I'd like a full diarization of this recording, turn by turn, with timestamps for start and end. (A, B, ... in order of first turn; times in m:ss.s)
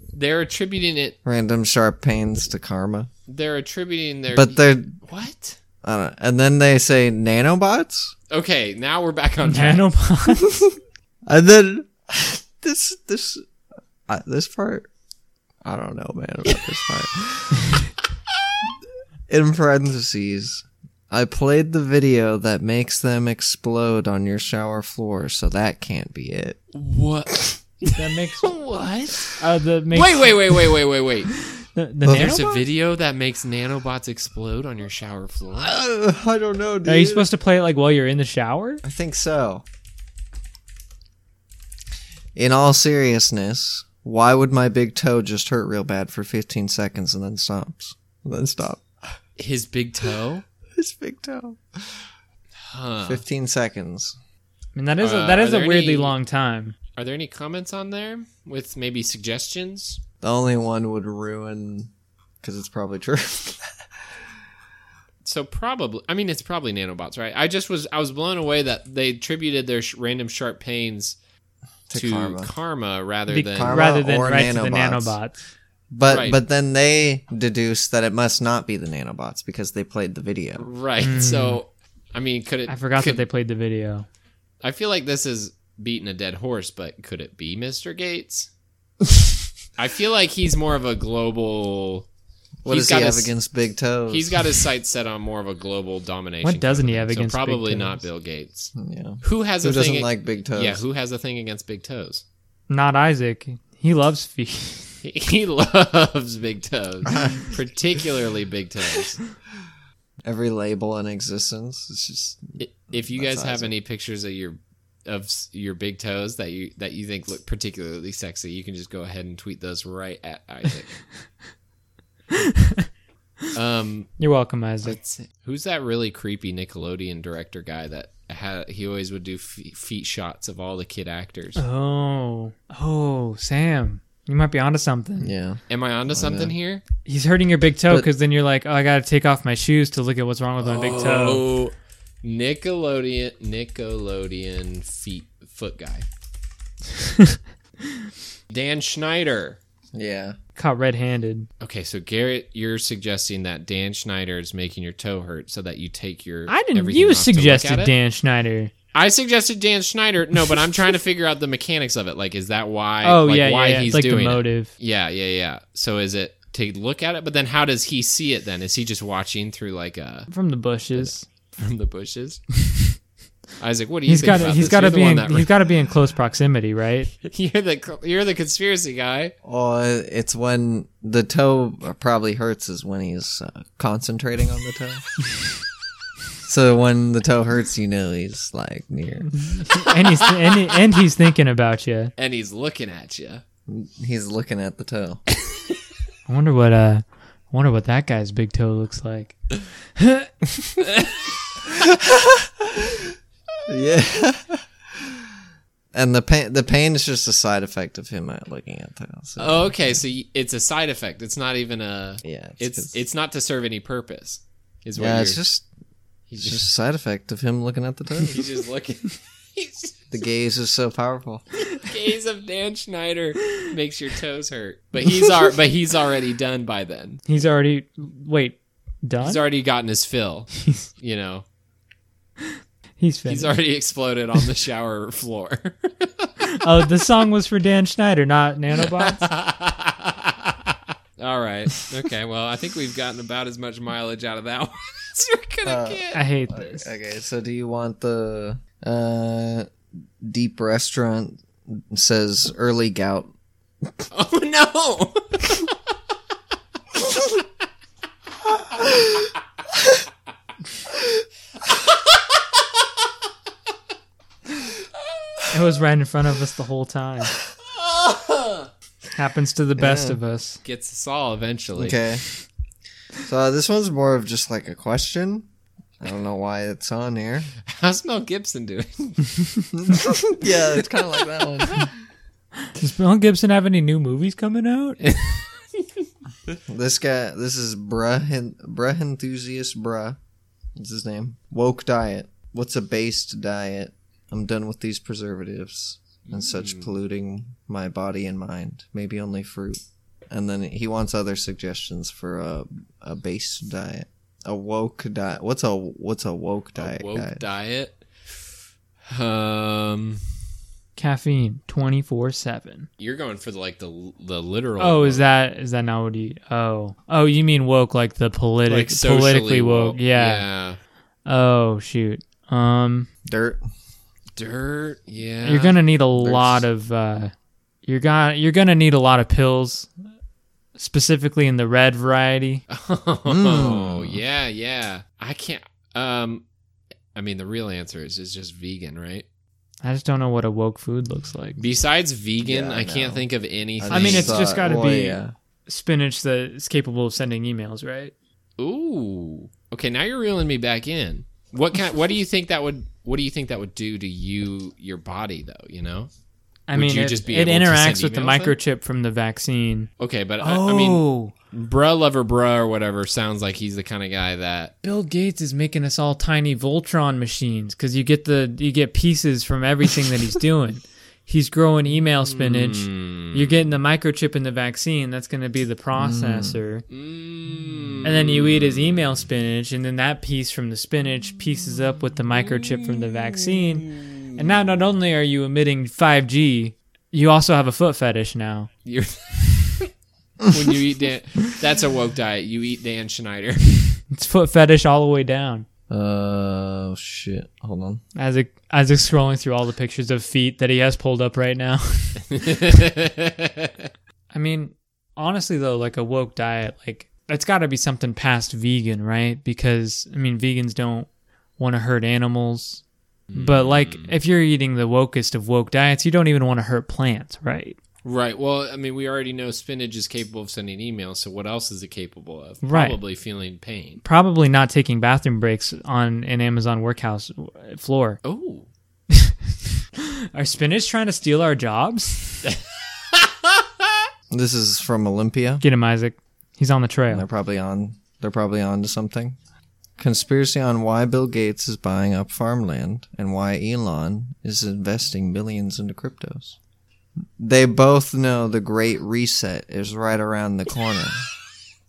0:00.1-0:01.2 A
0:01.2-0:03.1 B
0:03.3-0:05.6 A
0:04.3-0:05.0 B
0:05.8-0:08.1 B
0:08.3-0:09.8 A
0:09.4-0:10.6 C
0:11.3-0:13.4 B
0:14.1-0:14.9 B
0:15.6-0:17.8 B
0:19.3-0:26.6 B
0:26.7-0:29.4 A
0:27.9-0:28.5 C
0:29.4-0:30.6 C
0:29.9-0:31.3 A
0:31.6-0:32.5 C
0:32.0-0:32.6 B
0:32.1-0:35.7 A
0:35.6-0:37.3 B
0:36.8-0:38.8 C
0:38.8-0:39.6 B
0:42.4-0:48.8 B
0:49.4-0:50.4 A
0:50.8-0:52.0 B
0:52.6-0:53.2 A
0:53.0-0:54.2 B
0:54.7-0:56.8 C
0:55.0-0:56.1 A
0:57.0-1:00.0 A
1:00.2-1:01.9 B
1:02.4-1:03.8 B
1:05.2-1:11.2 A
1:11.9-1:12.5 B
1:11.9-1:13.8 A
1:13.3-1:15.4 C
1:13.5-1:15.2 B
1:15.9-1:20.6 B
1:16.1-1:16.4 A
1:20.6-1:23.2 A
1:21.0-1:21.6 C
1:22.7-1:24.0 C
1:24.6-1:28.5 A
1:29.8-1:32.0 A
1:32.6-1:34.6 B
1:32.7-1:33.3 A
1:34.1-1:42.2 A
1:36.4-1:38.0 C
1:38.7-1:40.8 B
1:42.7-1:45.0 C
1:45.0-1:49.2 A
1:47.0-1:47.5 B
1:50.2-1:53.7 B
1:52.6-2:01.0 A
2:02.3-2:02.8 C
2:03.5-2:04.1 A
2:04.2-2:05.0 C
2:04.8-2:11.6 A
2:11.6-2:15.3 C
2:15.2-2:16.5 B
2:15.7-2:16.8 A
2:17.0-2:21.4 C
2:20.6-2:26.0 A
2:28.5-2:29.6 A
2:29.9-2:30.4 B
2:30.6-2:31.5 C
2:31.6-2:37.9 A
2:36.5-2:38.7 C
2:38.9-2:50.3 A
2:43.0-2:44.7 C
2:50.3-2:51.2 C
2:51.0-2:52.4 A
2:53.6-2:55.6 A
2:54.1-2:57.1 C
2:57.2-2:59.3 A
2:59.4-3:05.0 B
3:06.4-3:09.3 B
3:09.3-3:12.1 C
3:12.2-3:13.4 A
3:13.7-3:15.2 B
3:16.3-3:19.4 C
3:20.0-3:20.3 C
3:21.7-3:23.1 B
3:23.7-3:25.2 B
3:25.9-3:29.8 B
3:29.4-3:35.4 A
3:32.2-3:32.9 B
3:34.9-3:35.6 B
3:36.3-3:36.6 A
3:36.4-3:38.4 B
3:38.2-3:40.0 A
3:40.1-3:41.4 B
3:41.7-3:47.3 A
3:47.3-3:49.4 C
3:49.2-3:51.4 A
3:50.6-3:50.9 C
3:53.0-3:53.5 C
3:53.3-3:56.3 A
3:56.4-3:59.2 C
3:58.8-4:06.2 A
4:05.6-4:13.3 B
4:06.1-4:06.9 C
4:14.1-4:15.7 A
4:25.5-4:27.3 C
4:27.6-4:28.7 A
4:29.1-4:30.6 C
4:29.8-4:30.2 B
4:30.6-4:32.0 A
4:31.8-4:32.2 B
4:33.2-4:35.5 B
4:36.0-4:37.5 B
4:37.6-4:39.6 A
4:39.8-4:41.8 B
4:42.6-4:45.0 C
4:45.0-4:45.8 A
4:46.7-4:50.2 B
4:50.8-4:59.8 B
4:56.3-4:56.9 A
5:00.3-5:07.4 B
5:06.8-5:08.4 A
5:09.1-5:10.2 A
5:11.0-5:12.9 C
5:13.0-5:15.2 A
5:14.8-5:20.4 C
5:18.7-5:20.8 A
5:21.2-5:23.1 C
5:23.2-5:23.6 B
5:24.4-5:25.8 A
5:25.4-5:27.3 C
5:26.2-5:26.6 B
5:27.8-5:29.9 C
5:30.8-5:32.6 C
5:32.7-5:36.4 A
5:33.3-5:34.2 B
5:37.1-5:39.2 A
5:39.8-5:41.6 C
5:41.6-5:44.5 A
5:42.4-5:43.2 B
5:43.8-5:45.3 B
5:43.9-5:48.1 C
5:48.6-5:56.1 A
5:56.7-5:59.9 C
5:56.7-5:58.6 A
6:00.0-6:04.7 A
6:00.4-6:01.3 C
6:04.8-6:16.8 C
6:12.2-6:13.6 A
6:15.9-6:16.6 B
6:16.9-6:18.9 A
6:18.0-6:28.7 C
6:22.4-6:24.3 A
6:28.8-6:29.9 A
6:30.5-6:34.0 A
6:34.1-6:35.6 C
6:35.9-6:38.0 B
6:38.2-6:42.6 C
6:42.3-6:43.7 A
6:44.3-6:52.8 C
6:53.3-6:54.1 A
6:53.3-6:57.8 C
6:58.0-7:04.0 A
7:02.6-7:03.0 C
7:04.0-7:08.2 C
7:08.2-7:08.7 A
7:10.0-7:12.5 C
7:12.4-7:14.0 A
7:14.3-7:15.6 B
7:15.6-7:17.2 C
7:17.1-7:19.4 B
7:20.0-7:26.6 B
7:27.4-7:31.2 B